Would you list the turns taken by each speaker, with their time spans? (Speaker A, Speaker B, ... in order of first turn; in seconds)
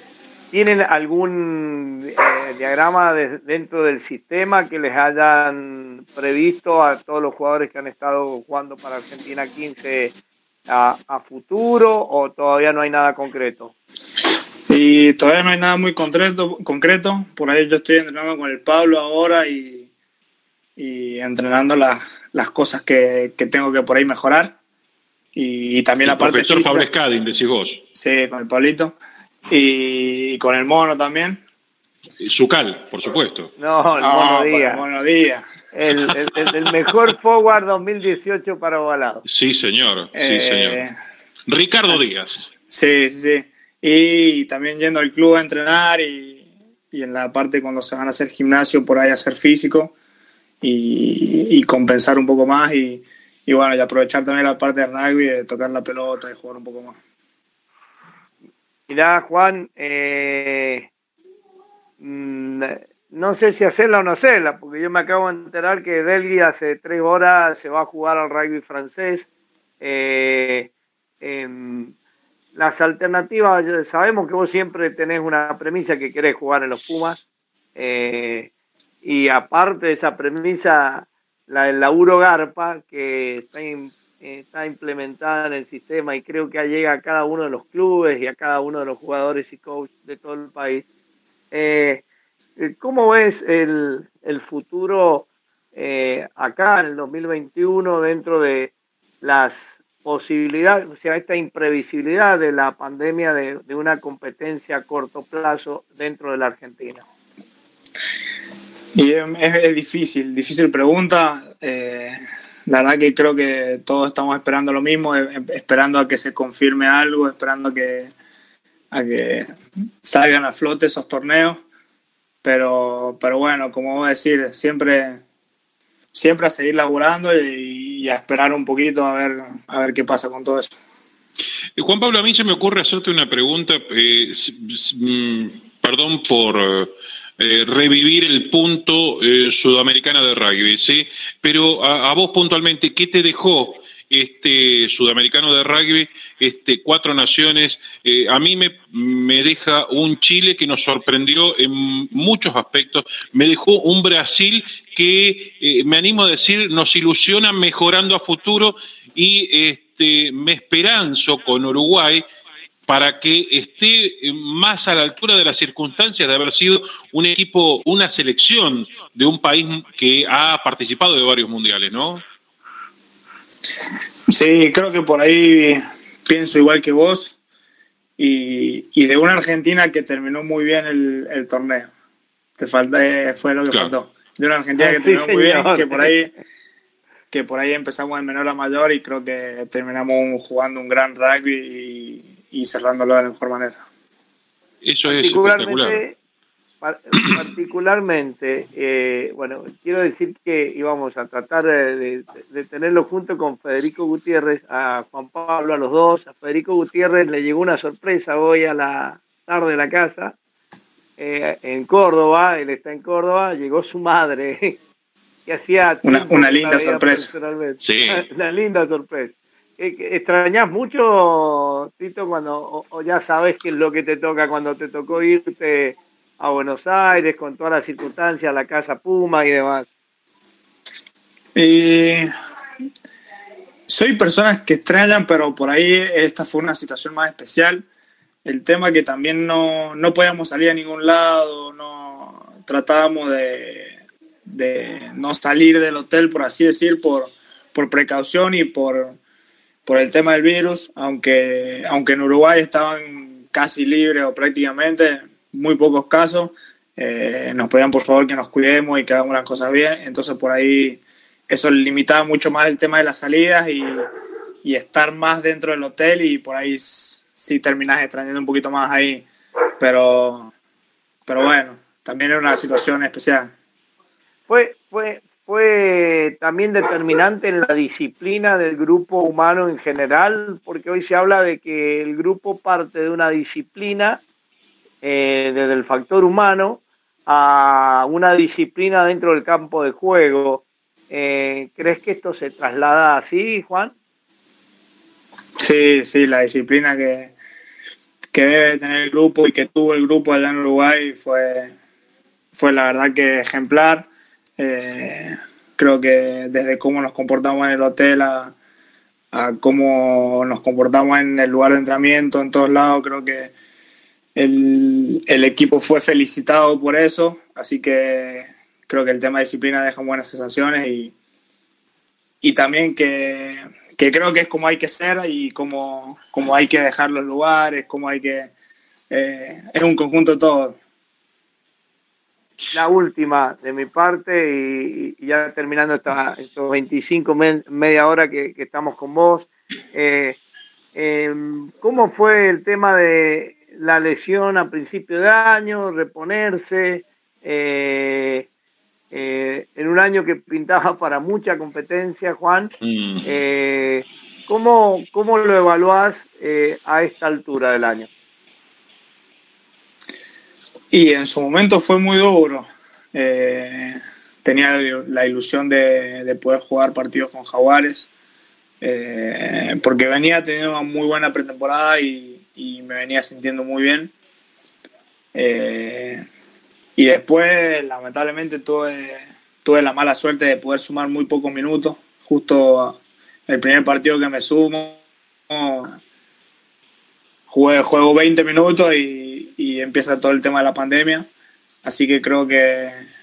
Speaker A: 0.5-10.1, 10.7-13.7, 33.6-34.8, 35.7-39.2, 58.9-60.9, 62.0-69.3, 69.8-70.7, 71.2-71.9, 72.5-77.2, 77.8-78.5, 79.0-90.8, 91.5-92.0, 92.6-107.0, 184.8-186.1, 195.0-196.2, 196.8-210.3, 211.2-214.8, 215.5-229.9, 274.5-284.2, 285.0-293.9, 332.7-340.4, 340.9-348.5, 349.1-352.7, 353.2-358.1
Speaker B: 14.7-19.9, 20.8-24.6, 25.3-26.9, 27.9-28.9, 29.5-31.4, 34.0-35.4, 40.1-40.9, 42.7-49.9, 50.6-57.0, 108.9-118.1, 118.9-119.5, 120.0-121.6, 122.4-125.2, 126.1-130.8, 174.3-177.3, 178.2-181.9, 182.6-186.3, 187.3-193.8, 216.0-217.3, 231.5-232.3, 233.9-237.8, 238.4-249.2, 249.8-264.1, 264.6-269.3, 269.8-270.5, 271.3-273.5, 295.6-297.3, 298.3-301.7, 302.5-304.1, 304.6-308.5, 309.3-313.5, 314.4-321.1, 322.4-328.5, 329.1-330.8, 360.9-368.1, 368.8-374.1, 375.3-376.2, 376.9-385.9, 387.5-391.3, 391.8-393.0
Speaker C: 26.0-27.8, 32.2-33.5, 39.2-40.8, 41.5-42.5, 131.8-162.2, 162.9-172.2, 194.8-196.0, 217.8-218.2, 352.8-353.2